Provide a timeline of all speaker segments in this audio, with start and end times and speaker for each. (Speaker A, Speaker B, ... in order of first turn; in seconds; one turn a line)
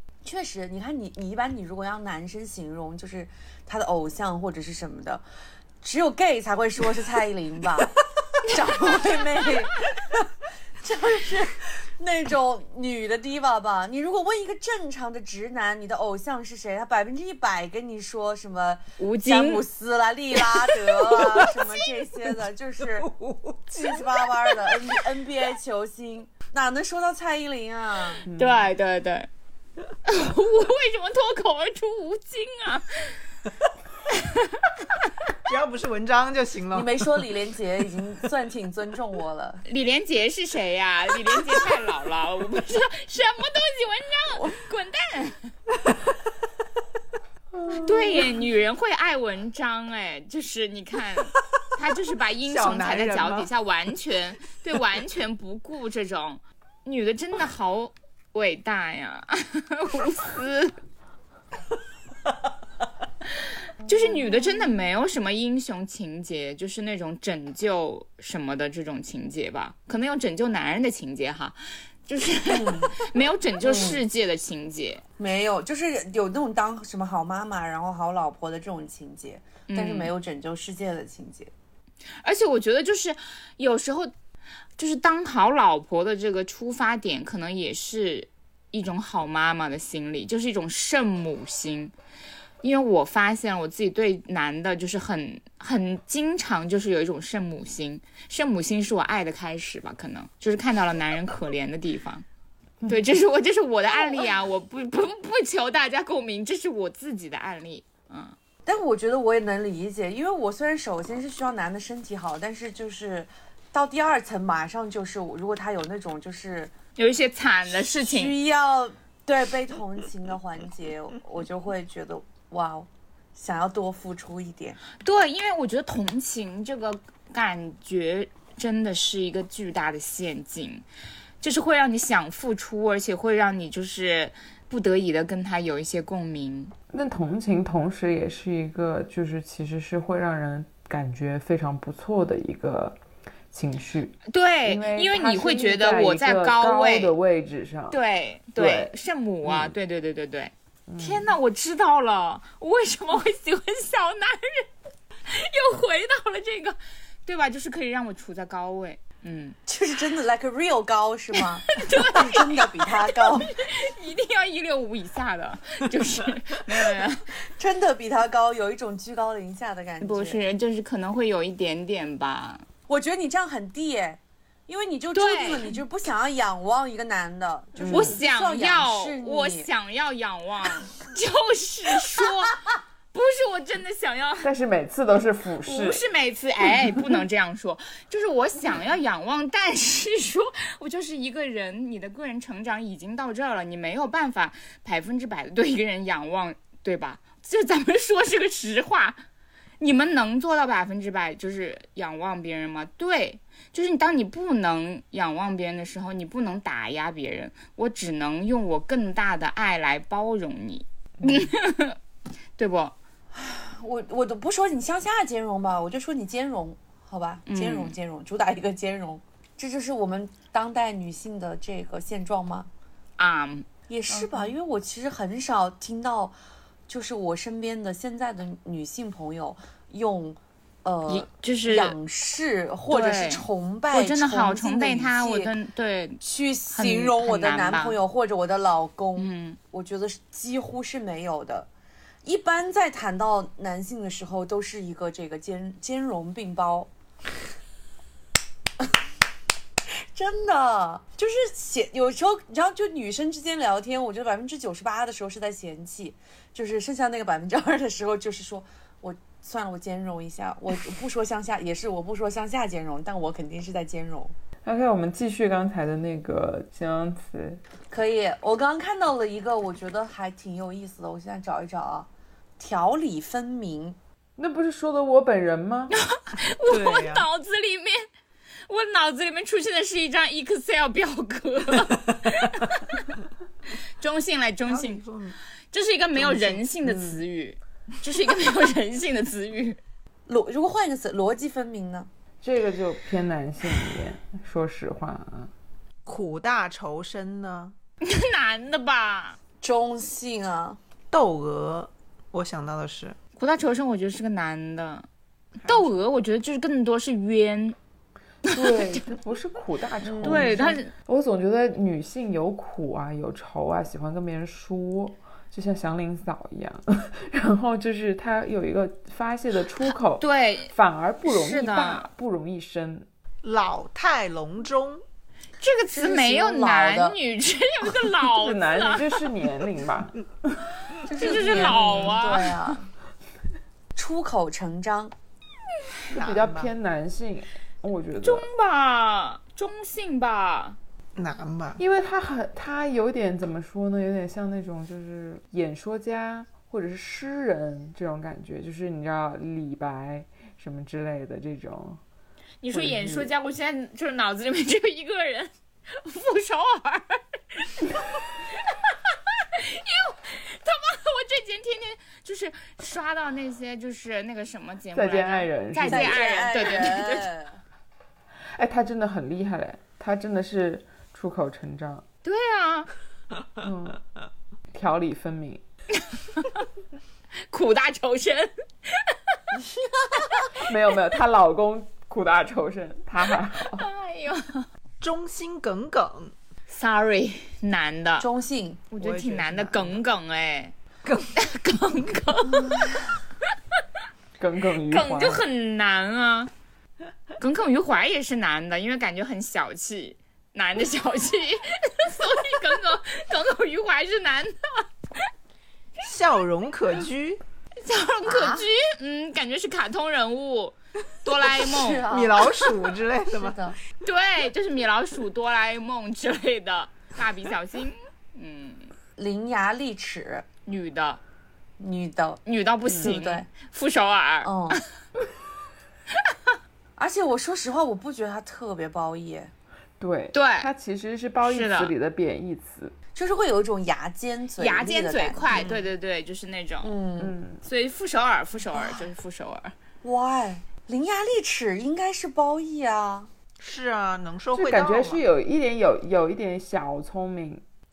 Speaker A: 0.2-5.2
Speaker A: 5.8-10.3
Speaker A: 10.8-23.1
Speaker B: 19.0-19.6
Speaker B: 20.4-21.6
Speaker C: 23.1-24.0
Speaker A: 23.7-28.2
Speaker D: 28.3-28.7
Speaker B: 28.3-29.3
Speaker B: 30.1-33.1
Speaker B: 34.1-34.7
Speaker C: 35.5-37.1
Speaker A: 36.7-39.6
Speaker B: 39.7-45.5
Speaker D: 47.5-48.3
Speaker B: 47.7-60.7
Speaker C: 52.5-53.5
Speaker B: 63.8-75.0
Speaker A: 72.4-73.0
Speaker A: 73.6-74.0
Speaker A: 75.2-81.5
Speaker B: 79.7-80.1
Speaker B: 82.2-84.1
Speaker B: 84.8-91.9
Speaker B: 92.6-102.2
Speaker B: 102.9-108.4
Speaker A: 108.6-116.7
Speaker B: 117.0-118.4
Speaker A: 117.7-124.8
Speaker B: 125.0-130.8
Speaker B: 131.4-136.7
Speaker D: 136.9-143.0
Speaker D: 143.5-148.0
Speaker B: 144.3-147.1
Speaker B: 147.9-154.7
Speaker D: 148.6-148.9
Speaker D: 149.4-149.7
Speaker D: 150.9-151.3
Speaker B: 155.3-159.6
Speaker A: 159.7-163.6
Speaker B: 161.3-167.3
Speaker A: 167.6-170.4
Speaker B: 170.0-172.6
Speaker A: 172.9-179.7
Speaker B: 175.1-175.8
Speaker D: 177.8-178.2
Speaker B: 177.9-184.5
Speaker D: 184.4-186.0
Speaker B: 185.6-199.2
Speaker B: 199.8-212.0
Speaker B: 212.6-212.9
Speaker A: 213.3-222.7
Speaker B: 217.5-217.9
Speaker B: 223.2-223.7
Speaker A: 223.9-226.3
Speaker D: 224.1-224.5
Speaker A: 226.9-235.5
Speaker B: 231.1-232.0
Speaker B: 232.9-236.2
Speaker A: 236.2-241.7
Speaker B: 236.7-238.0
Speaker B: 239.2-239.6
Speaker A: 242.2-246.9
Speaker A: 250.1-264.3
Speaker D: 264.6-267.6
Speaker A: 267.9-274.0
Speaker D: 274.4-275.9
Speaker B: 275.9-278.1
Speaker C: 276.6-277.3
Speaker B: 278.7-283.1
Speaker B: 284.0-285.0
Speaker C: 284.7-285.4
Speaker B: 285.7-289.8
Speaker C: 286.2-286.6
Speaker D: 286.8-287.2
Speaker A: 290.3-292.1
Speaker D: 292.4-295.5
Speaker C: 296.1-297.7
Speaker B: 298.0-299.4
Speaker A: 299.6-300.8
Speaker C: 301.1-303.1
Speaker B: 303.4-305.1
Speaker B: 305.6-307.8
Speaker D: 308.4-323.1
Speaker B: 308.5-309.0
Speaker A: 310.0-310.7
Speaker B: 310.2-310.9
Speaker B: 320.2-320.7
Speaker B: 321.3-322.1
Speaker C: 323.4-325.0
Speaker B: 325.6-329.1
Speaker A: 325.9-327.2
Speaker D: 328.2-330.7
Speaker A: 331.0-332.9
Speaker B: 331.1-332.7
Speaker D: 331.4-332.1
Speaker A: 333.9-335.1
Speaker C: 336.1-336.7
Speaker D: 336.1-338.5
Speaker B: 338.2-340.8
Speaker C: 341.2-341.8
Speaker D: 341.8-352.0
Speaker B: 352.6-367.3
Speaker D: 352.7-353.3
Speaker D: 364.9-366.2
Speaker A: 365.9-367.6
Speaker D: 368.6-372.1
Speaker B: 372.2-372.9
Speaker D: 373.6-374.0
Speaker D: 374.7-375.6
Speaker B: 375.9-376.6
Speaker B: 377.5-379.4
Speaker A: 379.6-380.5
Speaker D: 380.6-383.9
Speaker B: 383.6-384.7
Speaker C: 385.0-386.3
Speaker B: 386.7-388.3
Speaker A: 388.2-388.8
Speaker B: 388.9-393.2
Speaker C: 389.0-390.0
Speaker A: 392.5-393.1
Speaker D: 394.4-395.4
Speaker B: 394.9-396.5
Speaker B: 397.4-404.9
Speaker C: 406.0-407.4
Speaker B: 407.8-412.1
Speaker A: 408.2-408.7
Speaker A: 411.6-412.6
Speaker C: 412.1-413.6
Speaker A: 413.3-413.8
Speaker B: 414.0-418.9
Speaker A: 419.2-420.5
Speaker B: 420.6-421.2
Speaker A: 421.8-422.4
Speaker B: 422.4-424.8
Speaker D: 422.9-423.2
Speaker A: 423.0-423.5
Speaker A: 424.4-424.8
Speaker B: 426.2-426.6
Speaker A: 427.0-429.5
Speaker D: 430.0-432.9
Speaker B: 430.3-430.7
Speaker B: 431.4-431.9
Speaker A: 433.1-435.7
Speaker B: 434.6-436.9
Speaker C: 435.5-435.9
Speaker A: 436.8-437.3
Speaker D: 437.2-437.6
Speaker B: 437.6-439.7
Speaker A: 440.0-443.3
Speaker C: 443.6-445.2
Speaker D: 444.5-447.6